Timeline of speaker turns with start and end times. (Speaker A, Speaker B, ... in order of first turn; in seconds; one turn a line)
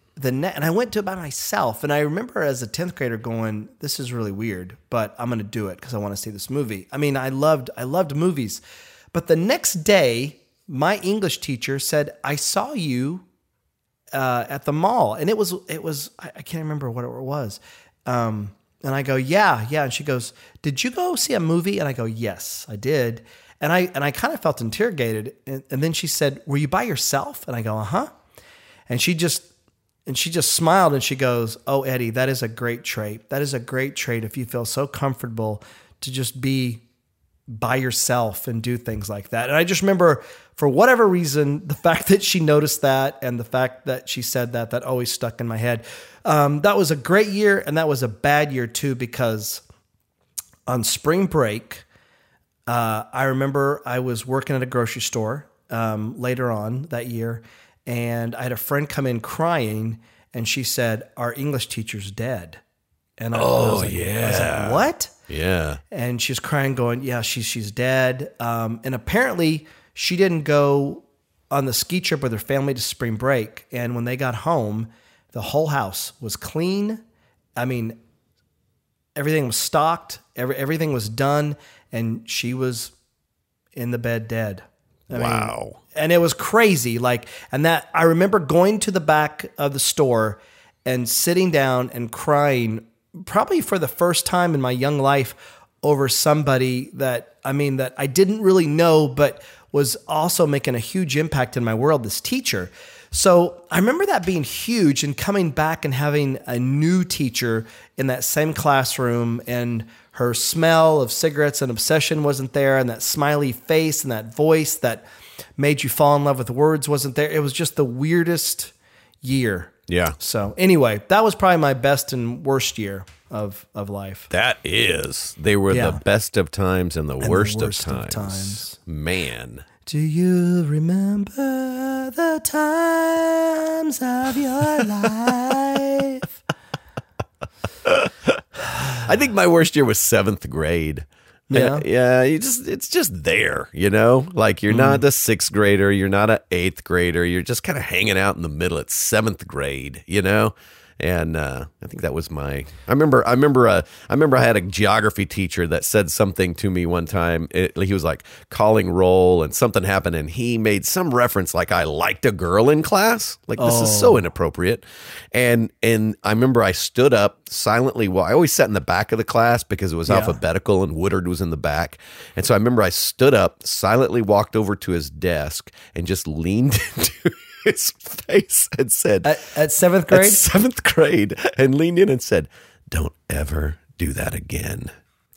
Speaker A: 0.2-8.6
Speaker A: 9.1-13.3
Speaker A: 14.1-28.1
Speaker A: 28.9-29.5
Speaker A: 30.1-36.8
Speaker A: 37.5-49.6
Speaker A: 50.7-51.9
Speaker A: 52.7-62.6
Speaker A: 63.2-65.1
Speaker B: 63.3-65.8
Speaker A: 65.9-77.0
Speaker A: 77.6-78.0
Speaker A: 79.2-82.9
Speaker A: 83.8-115.0
Speaker B: 85.1-85.8
Speaker A: 115.6-124.3
Speaker B: 119.9-120.2
Speaker B: 124.3-129.7
Speaker A: 125.7-126.0
Speaker A: 127.2-128.8
Speaker A: 129.9-136.3
Speaker B: 137.8-179.4
Speaker A: 141.5-141.9
Speaker A: 144.7-145.0
Speaker A: 163.6-164.2
Speaker A: 170.1-170.4
Speaker A: 179.2-180.4
Speaker B: 180.1-184.9